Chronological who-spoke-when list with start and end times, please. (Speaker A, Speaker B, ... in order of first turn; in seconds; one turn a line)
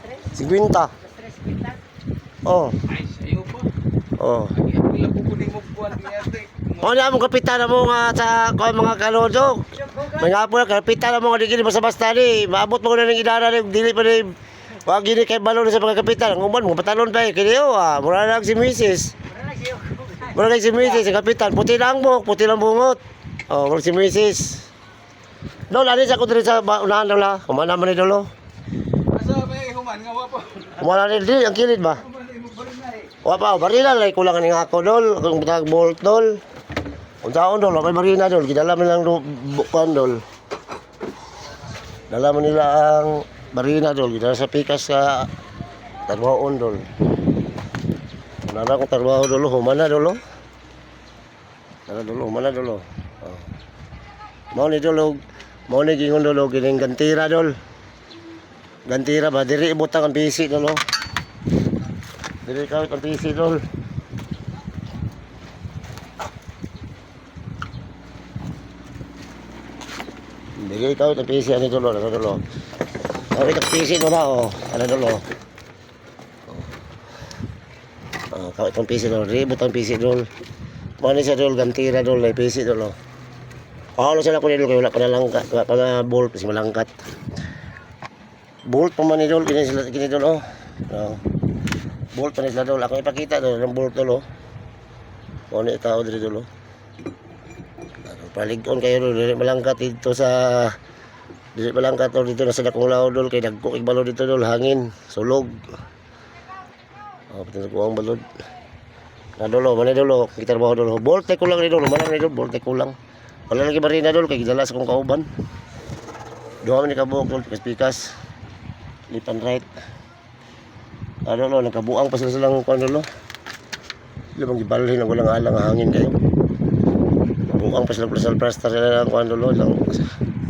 Speaker A: 0.2-0.9
Speaker A: 2.4-2.8
Speaker B: 2.9-3.7
Speaker A: 4.2-4.6
Speaker B: 4.5-6.9
Speaker A: 6.8-19.1
Speaker A: 20.2-24.7
Speaker A: 25.7-28.3
Speaker B: 29.1-30.8
Speaker A: 30.8-32.0
Speaker B: 32.2-33.0
Speaker A: 33.2-36.4
Speaker A: 37.2-40.2
Speaker A: 42.1-45.3
Speaker A: 46.1-46.9
Speaker A: 48.4-50.2
Speaker A: 51.9-53.5
Speaker A: 54.5-57.5
Speaker A: 58.9-60.8
Speaker A: 62.5-63.6
Speaker A: 70.6-72.4
Speaker A: 73.3-75.2
Speaker A: 78.3-80.3
Speaker A: 81.0-83.0
Speaker A: 84.0-87.0
Speaker A: 88.7-91.2
Speaker A: 92.1-94.2
Speaker A: 95.5-96.5
Speaker A: 98.0-100.8
Speaker A: 101.5-105.6
Speaker A: 107.3-108.2
Speaker A: 109.4-113.0
Speaker A: 113.5-115.3
Speaker A: 116.6-118.1
Speaker A: 119.1-119.7
Speaker A: 121.2-123.1
Speaker A: 124.3-126.2
Speaker A: 127.5-130.2